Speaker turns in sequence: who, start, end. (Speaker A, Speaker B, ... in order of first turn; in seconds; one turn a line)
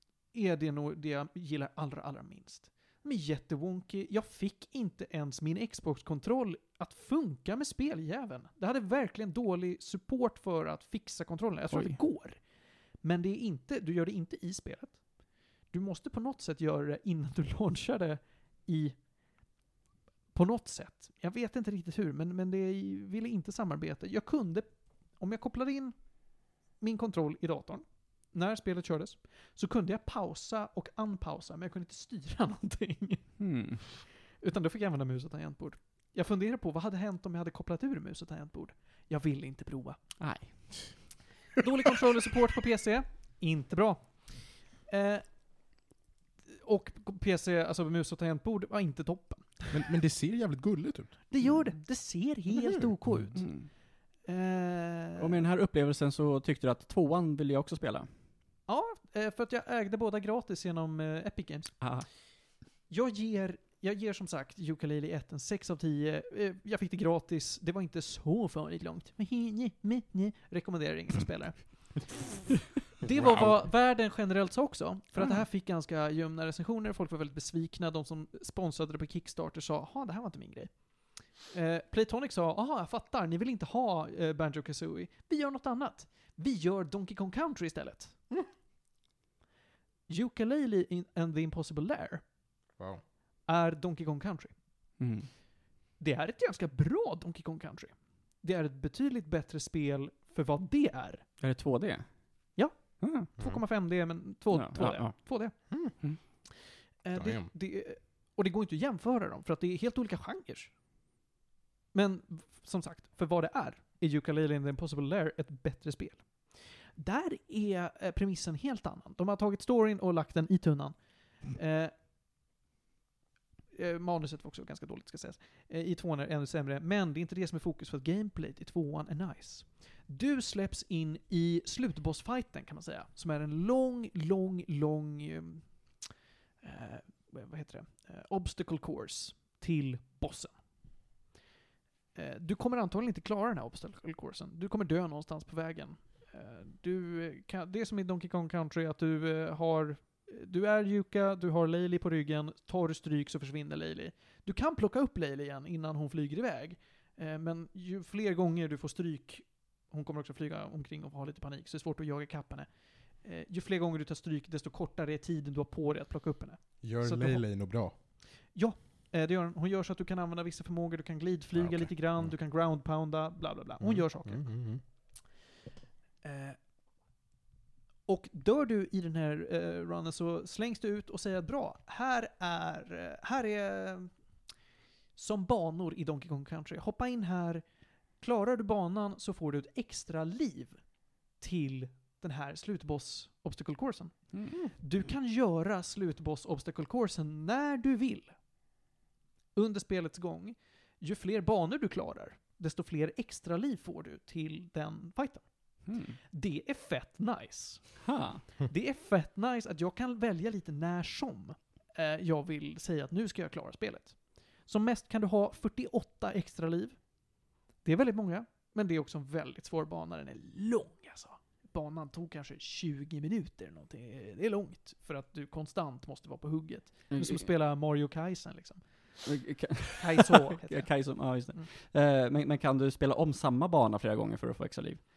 Speaker A: 0.3-12.4
Speaker B: 11.7-12.0
Speaker A: 13.0-15.0
Speaker A: 15.7-19.0
Speaker A: 20.3-25.9
Speaker A: 26.8-40.0
Speaker B: 33.4-33.8
Speaker B: 40.2-41.0
Speaker A: 41.6-45.3
Speaker A: 46.5-49.8
Speaker C: 49.7-51.2
Speaker A: 51.3-53.6
Speaker C: 52.5-52.9
Speaker B: 53.4-53.7
Speaker A: 54.2-55.5
Speaker B: 55.2-58.1
Speaker A: 58.7-61.9
Speaker B: 61.8-62.1
Speaker A: 62.9-72.3
Speaker A: 73.0-88.2
Speaker C: 73.2-73.6
Speaker A: 90.1-92.2
Speaker A: 93.5-94.5
Speaker B: 95.0-95.3
Speaker A: 96.0-101.3
Speaker B: 101.4-103.3
Speaker A: 102.6-105.6
Speaker B: 104.5-106.2
Speaker A: 107.0-110.7
Speaker C: 107.2-107.5
Speaker A: 111.9-121.9
Speaker A: 123.7-136.1
Speaker A: 136.6-140.6
Speaker A: 142.2-174.5
Speaker C: 166.8-167.9
Speaker C: 171.6-172.3
Speaker C: 173.8-174.8
Speaker A: 176.2-176.6
Speaker A: 178.1-184.2
Speaker A: 185.2-187.7
Speaker A: 188.2-190.8
Speaker A: 191.4-198.3
Speaker B: 194.3-194.6
Speaker A: 199.6-217.0
Speaker B: 205.9-206.2
Speaker B: 208.0-208.4
Speaker A: 217.8-229.3
Speaker B: 227.1-227.5
Speaker B: 229.3-235.0
Speaker A: 230.0-231.7